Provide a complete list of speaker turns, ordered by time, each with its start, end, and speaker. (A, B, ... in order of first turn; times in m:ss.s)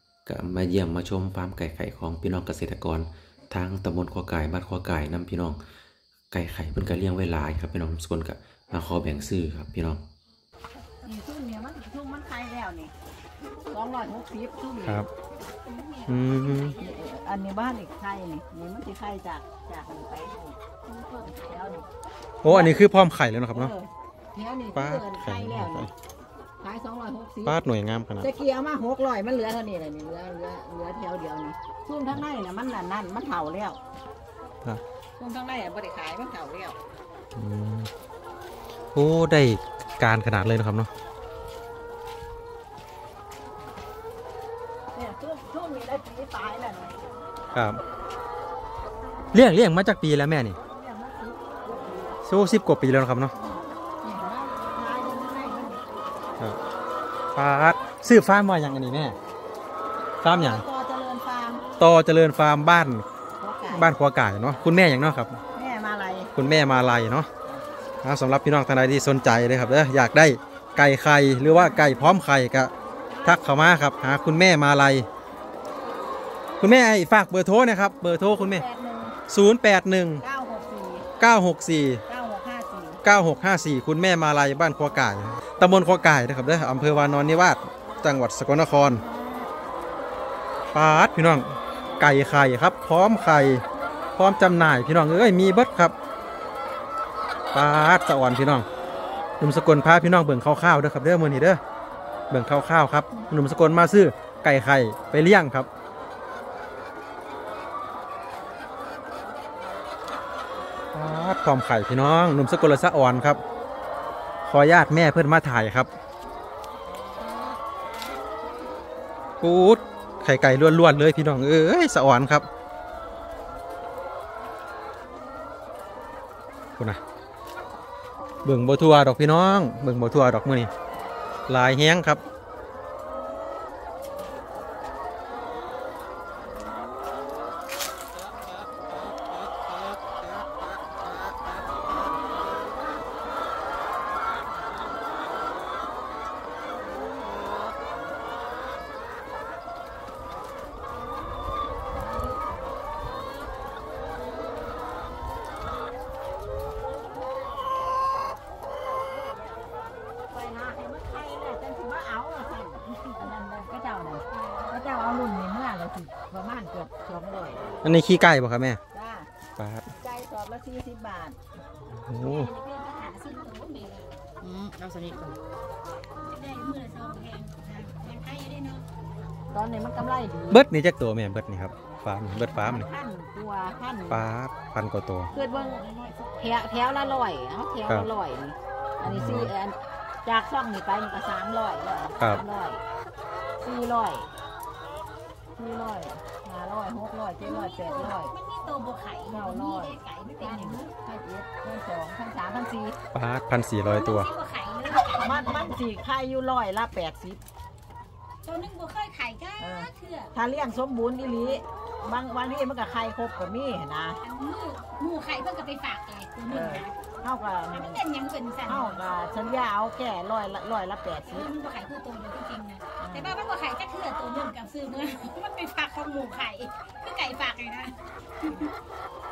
0:00.3-0:05.6 A
0:06.3-0:10.0 A
0:11.0-0:12.9 B
0:13.7-0:15.1 B
0:14.8-0:15.1 C
0:15.6-0:17.0 D
0:16.1-0:16.8 C
0:16.8-0:20.6 B
0:21.1-0:21.9 B
0:22.4-0:23.7 C
0:22.4-0:22.9 B
0:23.5-0:25.9 B
0:24.8-0:25.9 C
0:26.6-0:27.6 B
0:27.5-0:28.3 C
0:28.2-0:33.8 B
0:35.2-0:36.8 B
0:37.4-0:37.9 C
0:39.0-0:40.9 C
0:44.9-0:47.1 B
0:47.5-0:47.8 C
0:49.3-0:50.6 C
0:50.6-0:52.2 B
0:52.3-0:53.3 C
0:53.4-0:55.8 B
0:57.4-0:59.2 C
1:00.2-1:00.6 C
1:00.3-1:01.6 B
1:01.8-1:03.0 C
1:03.4-1:03.9 B
1:03.7-1:05.4 C
1:05.5-1:06.3 B
1:06.4-1:07.3 C
1:08.0-1:12.7 C
1:11.5-1:11.8 B
1:13.1-1:13.4 B
1:13.2-1:15.1 C
1:16.6-1:18.6 C
1:18.3-1:19.2 B
1:19.3-1:20.2 C
1:20.2-1:21.1 B
1:21.2-1:22.0 C
1:22.1-1:23.0 B
1:23.0-1:29.0 C
1:29.0-1:29.5 B
1:30.7-1:33.6 C
1:34.2-1:35.9 C
1:37.5-1:38.7 C
1:39.4-1:41.6 C
1:42.3-1:45.7 C
1:50.9-1:53.4 C
1:54.5-1:55.9 C
1:59.4-2:02.5 C
2:08.4-2:10.7 C
2:11.5-2:12.2 C
2:38.8-2:47.8 B
2:44.3-2:44.7 D
2:47.8-2:48.8 C
2:48.9-2:49.3 B
2:49.6-2:49.9 C
2:49.9-2:51.4 B
2:52.0-2:52.5 C
2:52.1-2:54.1 D
2:54.4-2:55.4 B
2:56.2-2:58.8 D
2:59.5-3:00.6 B
3:00.5-3:02.9 C
3:02.5-3:04.2 B
3:04.1-3:05.3 C
3:05.3-3:07.3 D
3:05.3-3:05.8 B
3:06.4-3:12.8 B
3:09.0-3:09.5 C
3:13.6-3:14.3 B
3:15.6-3:18.3 B
3:17.4-3:20.9 D
3:19.3-3:23.0 B
3:23.1-3:24.3 C
3:23.8-3:25.8 D
3:25.1-3:27.4 B
3:28.4-3:30.3 D
3:29.6-3:34.2 B
3:34.2-3:37.0 D
3:36.5-3:38.0 B
3:37.7-3:39.1 D
3:38.7-3:41.5 B
3:41.2-3:48.7 D
3:43.0-3:43.3 B